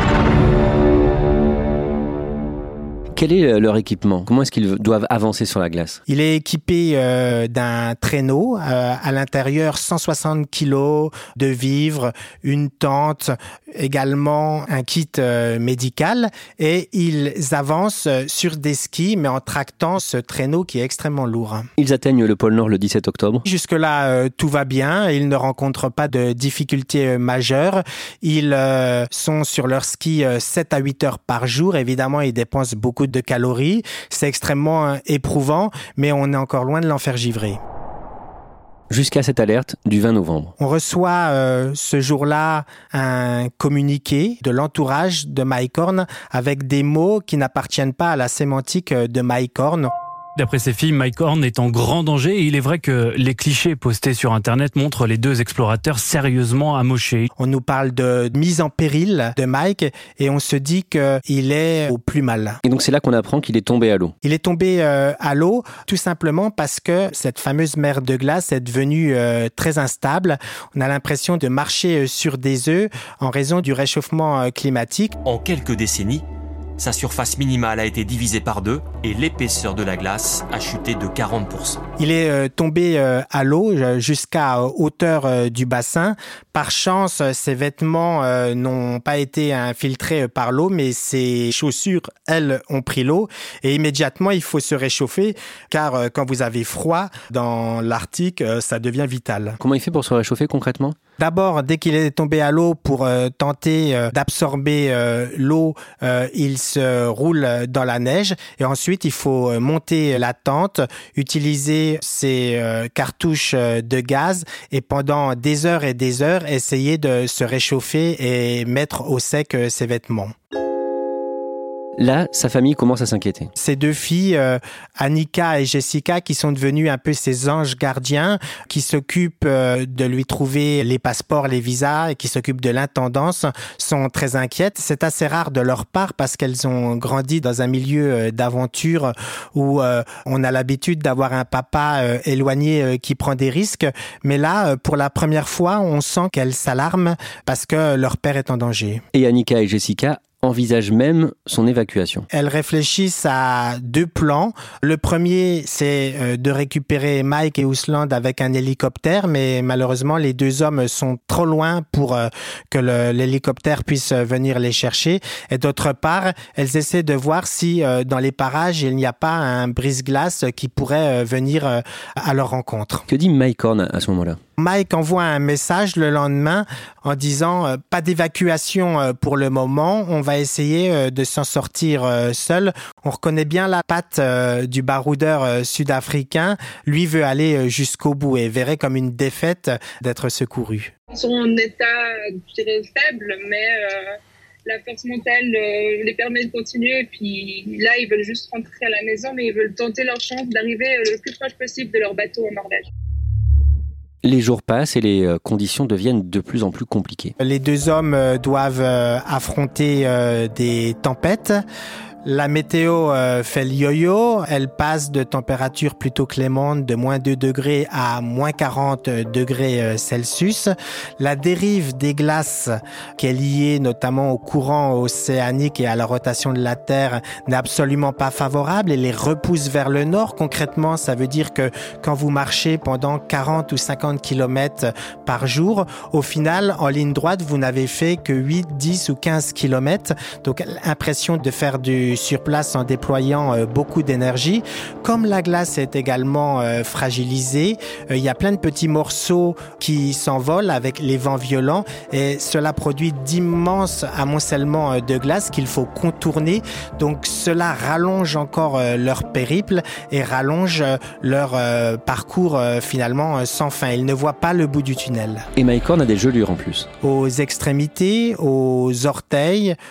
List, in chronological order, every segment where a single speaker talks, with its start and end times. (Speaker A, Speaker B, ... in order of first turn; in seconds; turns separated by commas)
Speaker A: 3.1-6.0, Speaker B: 6.1-21.7, Speaker A: 21.8-23.4, Speaker B: 23.4-37.6, Speaker A: 38.9-40.5, Speaker B: 40.6-49.9, Speaker C: 50.4-57.3, Speaker B: 57.4-62.6, Speaker A: 62.6-64.1, Speaker B: 64.2-75.2, Speaker D: 75.2-76.2, Speaker D: 76.8-81.8, Speaker B: 82.0-99.6, Speaker A: 99.6-100.9, Speaker B: 101.2-120.3, Speaker A: 122.0-123.5, Speaker B: 123.5-149.0, Speaker A: 149.1-152.3, Speaker B: 152.3-173.1, Speaker A: 173.1-174.4, Speaker B: 174.6-190.9, Speaker E: 191.1-202.9, Speaker A: 204.2-207.3, Speaker B: 207.4-211.6, Speaker B: 212.2-265.5, Speaker A: 265.6-266.9, Speaker B: 267.0-269.8